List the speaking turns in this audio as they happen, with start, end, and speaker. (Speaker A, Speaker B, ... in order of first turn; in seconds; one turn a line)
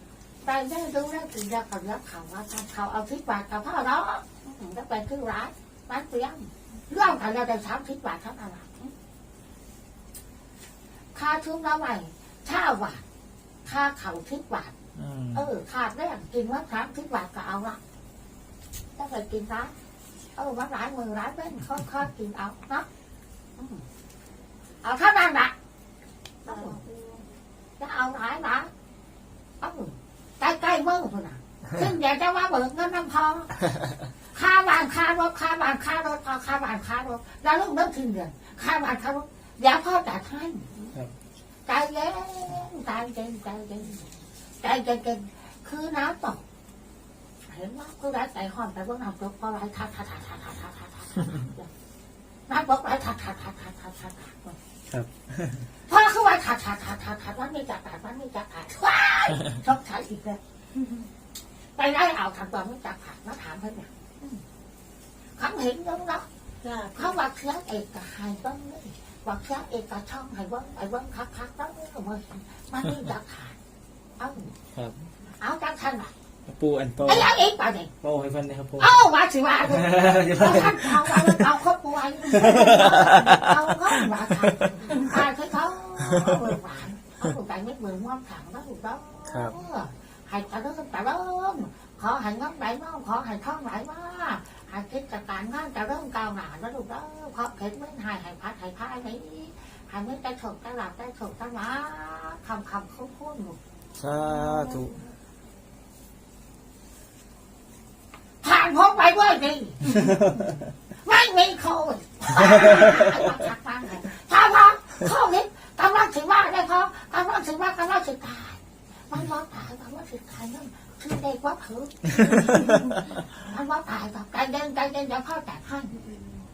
Speaker A: 0.4-8.9
Speaker A: 11.1-13.0
Speaker A: 13.7-14.7
Speaker B: 15.0-15.4
Speaker A: 15.3-17.8
Speaker A: 19.0-19.7
Speaker A: 20.4-22.9
Speaker A: 23.6-23.9
Speaker A: 24.8-25.5
Speaker A: 26.4-26.8
Speaker C: 26.4-27.3
Speaker A: 27.8-28.7
Speaker A: 29.6-33.6
Speaker A: 34.3-40.9
Speaker A: 41.7-44.1
Speaker A: 44.6-46.4
Speaker A: 47.5-51.7
Speaker A: 52.5-54.6
Speaker B: 54.9-55.6
Speaker A: 55.9-60.4
Speaker A: 61.8-64.4
Speaker A: 65.4-66.3
Speaker C: 66.6-67.2
Speaker A: 67.0-73.6
Speaker A: 74.2-74.5
Speaker B: 74.7-75.0
Speaker A: 75.4-76.1
Speaker B: 76.5-77.3
Speaker A: 77.0-77.9
Speaker B: 78.0-79.0
Speaker A: 78.8-103.6
Speaker B: 79.6-81.4
Speaker B: 82.3-83.6
Speaker B: 89.3-89.6
Speaker B: 104.0-105.0
Speaker C: 104.4-105.0
Speaker A: 108.4-110.0
Speaker A: 111.0-126.0